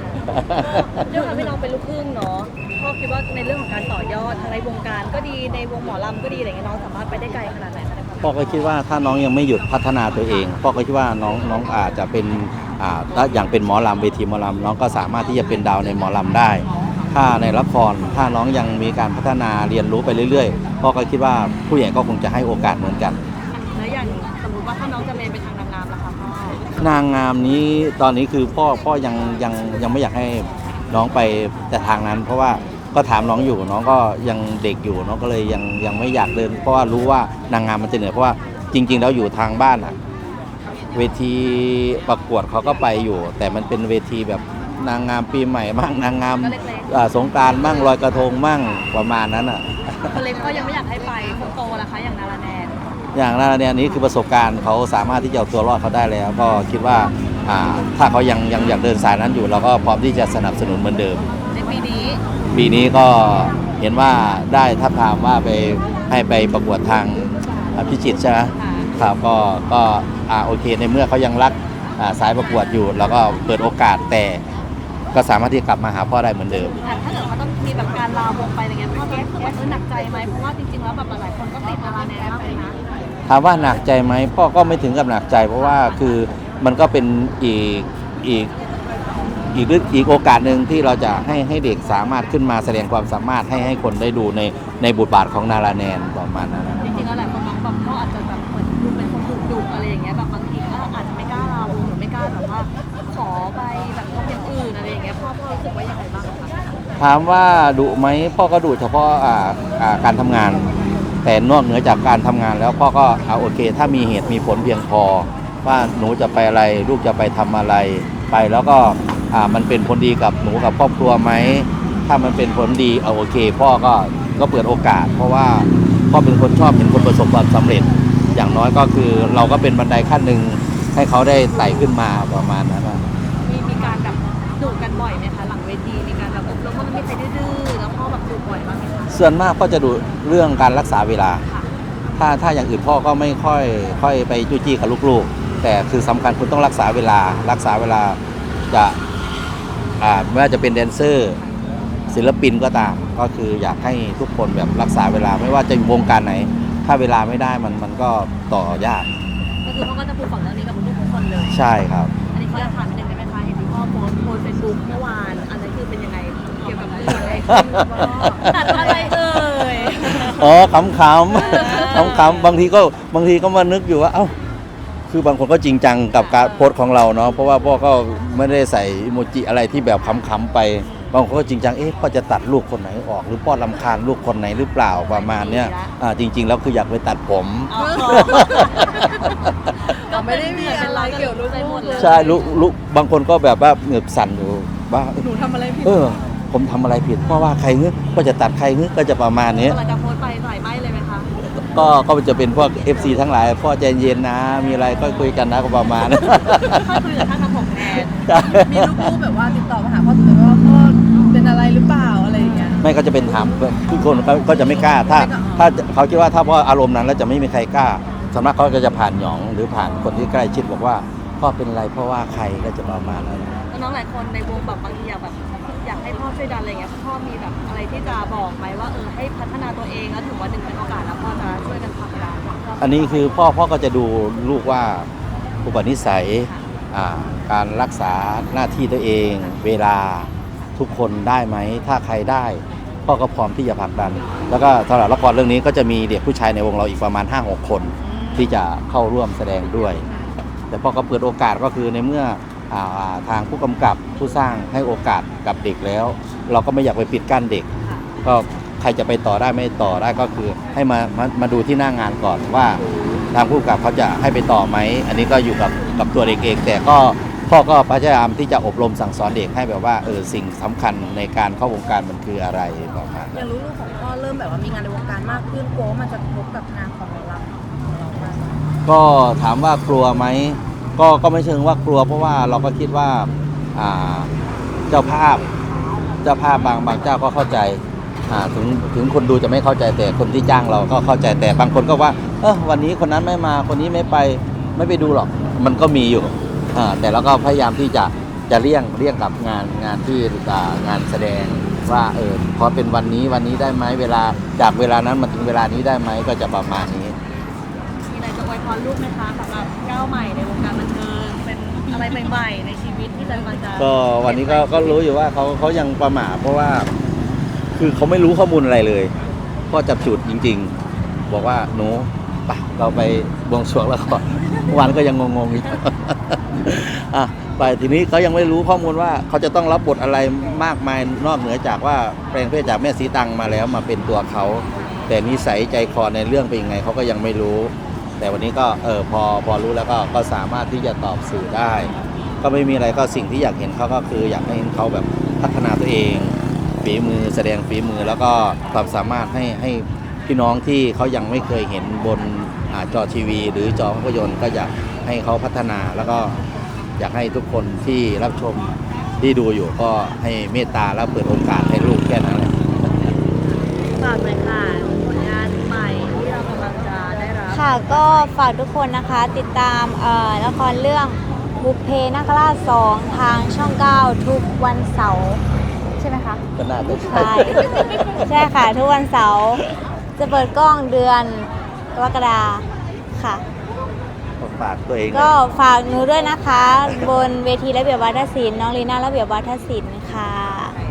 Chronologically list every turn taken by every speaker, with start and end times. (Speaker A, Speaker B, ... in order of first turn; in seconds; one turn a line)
Speaker A: 0.3-1.0
Speaker B: 0.9-8.3
Speaker A: 8.2-23.2
Speaker B: 23.5-26.7
Speaker A: 26.8-40.0
Speaker A: 40.9-50.2
Speaker B: 46.4-46.9
Speaker B: 47.5-48.0
Speaker B: 50.1-52.7
Speaker A: 53.1-61.2
Speaker B: 61.5-62.2
Speaker A: 62.5-74.4
Speaker B: 68.6-68.9
Speaker A: 75.1-76.8
Speaker B: 76.8-82.8
Speaker A: 83.3-88.5
Speaker B: 85.5-86.2
Speaker A: 89.5-97.1
Speaker B: 96.8-106.6
Speaker A: 107.0-110.7
Speaker A: 111.2-133.0
Speaker B: 133.4-139.2
Speaker A: 139.1-141.4
Speaker A: 142.2-148.2
Speaker A: 148.7-149.0
Speaker A: 150.0-151.4
Speaker A: 152.1-159.1
Speaker B: 159.6-161.6
Speaker A: 161.5-162.1
Speaker B: 162.3-170.6
Speaker C: 167.0-169.1
Speaker A: 167.5-169.0
Speaker A: 170.2-174.3
Speaker B: 171.3-172.6
Speaker A: 175.1-189.3
Speaker B: 176.1-176.7
Speaker B: 180.8-181.1
Speaker B: 184.9-185.9
Speaker B: 187.7-192.6
Speaker C: 187.8-189.3
Speaker C: 190.1-192.4
Speaker A: 191.9-195.2
Speaker C: 195.2-196.1
Speaker A: 195.8-199.8
Speaker B: 199.6-201.3
Speaker A: 201.5-207.0
Speaker B: 206.2-208.1
Speaker A: 208.2-209.1
Speaker C: 208.5-212.8
Speaker B: 212.4-212.8
Speaker A: 212.8-223.6
Speaker C: 214.5-215.7
Speaker B: 219.8-220.2
Speaker B: 223.7-232.6
Speaker A: 232.8-235.1
Speaker A: 235.6-250.0
Speaker B: 248.0-248.5
Speaker B: 249.7-250.3
Speaker A: 250.7-257.7
Speaker A: 258.2-262.8
Speaker B: 262.7-263.2
Speaker A: 263.3-273.3
Speaker C: 273.3-278.6
Speaker A: 278.9-284.3
Speaker A: 284.9-285.4
Speaker A: 286.2-307.1
Speaker B: 308.1-315.0
Speaker A: 313.7-316.9
Speaker A: 317.7-319.1
Speaker A: 319.7-320.7
Speaker A: 321.3-356.4
Speaker A: 357.0-362.6
Speaker B: 363.9-368.3
Speaker D: 367.5-375.4
Speaker D: 376.0-379.7
Speaker A: 376.6-378.5
Speaker D: 380.2-383.4
Speaker A: 384.4-385.4
Speaker D: 385.1-390.8